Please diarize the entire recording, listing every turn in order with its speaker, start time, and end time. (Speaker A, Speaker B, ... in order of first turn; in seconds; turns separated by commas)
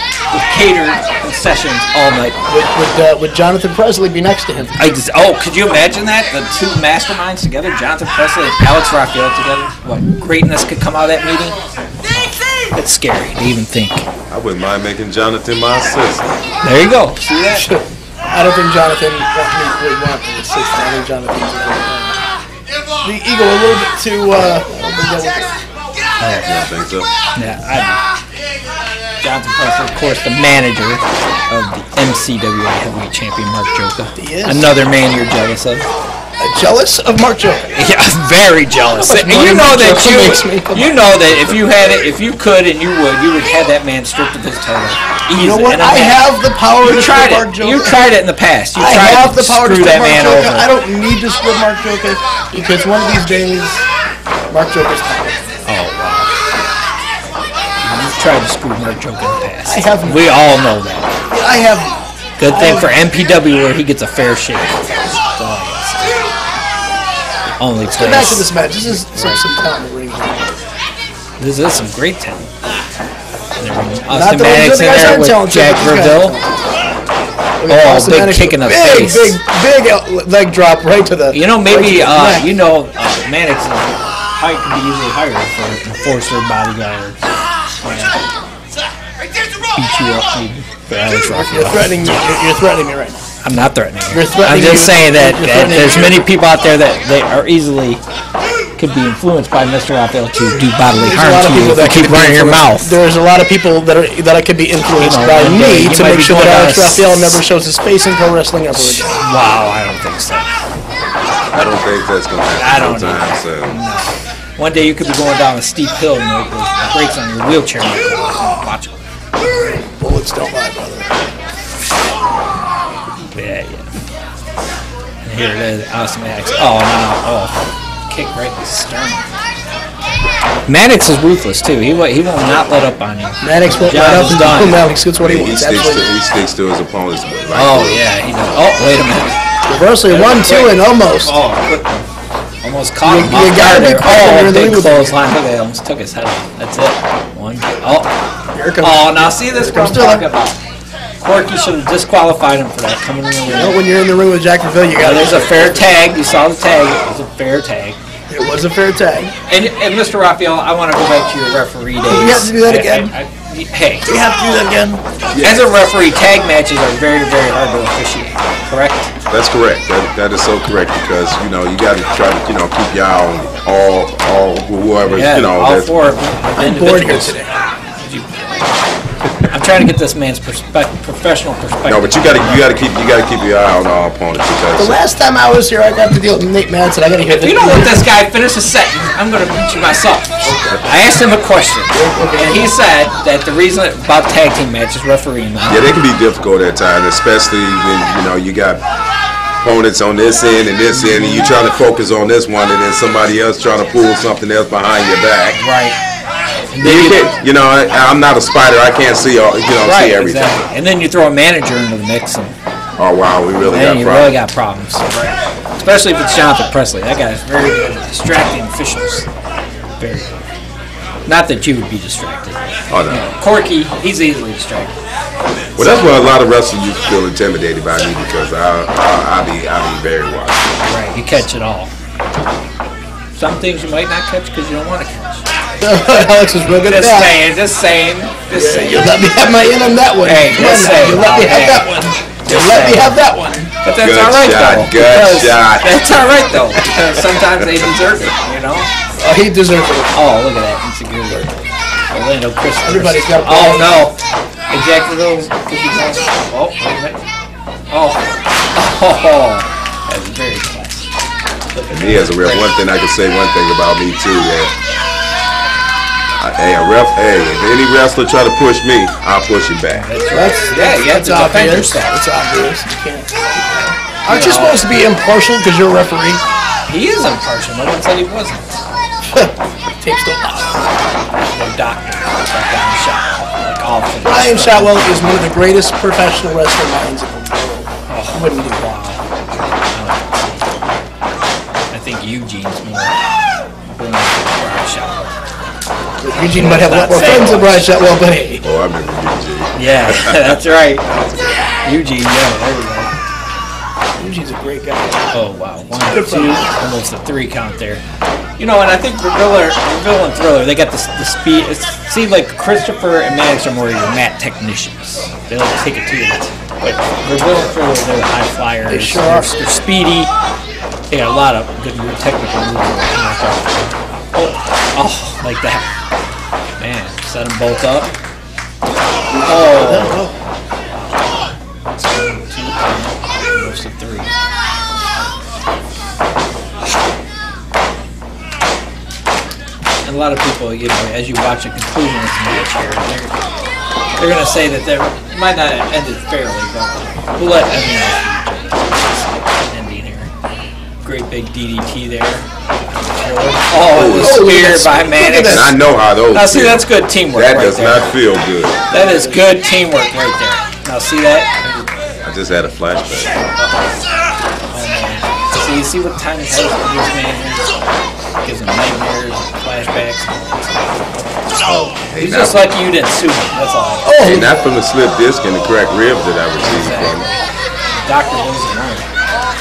Speaker A: 0.3-2.4, Speaker B: 2.5-4.8, Speaker A: 4.8-11.6, Speaker A: 12.1-14.1, Speaker C: 14.3-16.3, Speaker A: 16.6-17.7, Speaker B: 17.6-22.2, Speaker B: 23.0-25.5, Speaker A: 26.2-26.5, Speaker C: 26.5-27.1, Speaker A: 27.4-28.0, Speaker A: 29.2-35.9, Speaker B: 34.2-34.7, Speaker B: 36.4-37.8, Speaker A: 37.7-46.2, Speaker B: 38.9-41.0, Speaker C: 41.4-41.8, Speaker B: 45.4-48.0, Speaker A: 46.8-50.7, Speaker B: 48.8-53.9, Speaker B: 54.5-55.5, Speaker A: 55.7-56.3, Speaker A: 57.8-61.1, Speaker B: 59.7-60.3, Speaker B: 61.3-62.9, Speaker A: 62.4-66.2, Speaker A: 67.6-69.4, Speaker B: 67.9-70.6, Speaker A: 71.4-72.5, Speaker A: 73.6-76.4, Speaker B: 74.1-76.9, Speaker B: 77.6-82.5, Speaker A: 77.7-79.4, Speaker A: 81.3-87.3, Speaker A: 87.8-88.3, Speaker A: 89.7-92.3, Speaker B: 91.3-93.2, Speaker A: 93.4-98.0, Speaker B: 94.1-96.2, Speaker A: 98.8-103.0, Speaker B: 100.9-109.2, Speaker A: 105.0-107.4, Speaker A: 108.7-110.5, Speaker C: 111.5-113.8, Speaker A: 112.5-119.0, Speaker B: 119.4-121.1, Speaker A: 123.3-123.9, Speaker A: 125.2-129.3, Speaker A: 130.7-134.8, Speaker B: 133.4-136.1, Speaker C: 135.2-138.1, Speaker A: 137.5-139.6, Speaker B: 139.7-141.4, Speaker A: 140.1-142.1, Speaker A: 142.6-148.1, Speaker B: 143.1-145.2, Speaker B: 148.5-150.3, Speaker A: 148.8-150.6, Speaker A: 151.2-153.8, Speaker B: 153.5-156.1, Speaker A: 155.0-158.0, Speaker B: 158.3-159.3, Speaker A: 159.5-164.1, Speaker B: 162.1-163.1, Speaker B: 164.1-165.3, Speaker C: 165.3-165.7, Speaker A: 165.4-169.1, Speaker C: 169.3-176.0, Speaker A: 175.1-177.4, Speaker B: 176.6-177.5, Speaker A: 178.0-178.7, Speaker A: 179.5-182.7, Speaker C: 181.9-185.0, Speaker B: 184.8-188.0, Speaker A: 187.3-195.8, Speaker B: 190.4-190.8, Speaker B: 191.9-192.7, Speaker C: 195.7-198.8, Speaker C: 199.6-205.6, Speaker A: 201.0-201.6, Speaker A: 205.6-206.0, Speaker A: 206.7-207.3, Speaker C: 206.8-210.6, Speaker A: 209.8-212.6, Speaker C: 213.0-214.3, Speaker A: 213.6-219.3, Speaker A: 220.0-220.4, Speaker A: 221.3-225.0, Speaker C: 222.9-223.3, Speaker C: 225.8-230.8, Speaker A: 230.8-231.9, Speaker A: 233.3-235.5, Speaker B: 235.8-237.3, Speaker A: 236.8-239.1, Speaker B: 238.5-243.7, Speaker A: 240.2-241.9, Speaker A: 242.4-243.2, Speaker A: 243.8-248.9, Speaker C: 244.0-246.0, Speaker B: 249.2-250.1, Speaker A: 250.2-251.5, Speaker B: 251.3-251.6, Speaker A: 252.1-254.2, Speaker B: 252.8-254.0, Speaker A: 254.7-257.2, Speaker A: 257.9-261.1, Speaker A: 261.7-262.7, Speaker C: 261.9-264.7, Speaker C: 266.4-270.1, Speaker A: 270.0-272.2, Speaker B: 270.3-276.4, Speaker A: 274.3-274.9, Speaker A: 276.9-278.7, Speaker B: 279.3-280.9, Speaker A: 281.3-285.2, Speaker B: 284.2-288.8, Speaker A: 288.1-290.7, Speaker A: 291.9-293.2, Speaker A: 293.9-295.4, Speaker B: 296.2-298.6, Speaker A: 296.5-297.9, Speaker C: 298.6-300.6, Speaker A: 299.8-303.1, Speaker B: 304.2-305.3, Speaker A: 305.3-308.0, Speaker B: 306.1-306.6, Speaker A: 308.6-320.3, Speaker B: 318.9-319.5, Speaker A: 321.1-325.9, Speaker A: 326.8-328.1, Speaker B: 329.3-330.4, Speaker A: 329.5-330.2, Speaker A: 332.0-334.3, Speaker A: 340.0-343.4, Speaker A: 344.2-350.3, Speaker A: 351.0-355.8, Speaker C: 353.9-354.4, Speaker B: 354.2-355.7, Speaker C: 355.4-358.8, Speaker A: 356.3-358.2, Speaker A: 358.9-361.9, Speaker B: 358.9-359.5, Speaker C: 362.2-363.4, Speaker A: 363.5-364.0, Speaker A: 364.7-367.9, Speaker A: 368.4-370.9, Speaker C: 371.6-372.7, Speaker A: 372.2-374.1, Speaker B: 374.1-374.6, Speaker C: 374.2-377.3, Speaker A: 376.6-379.1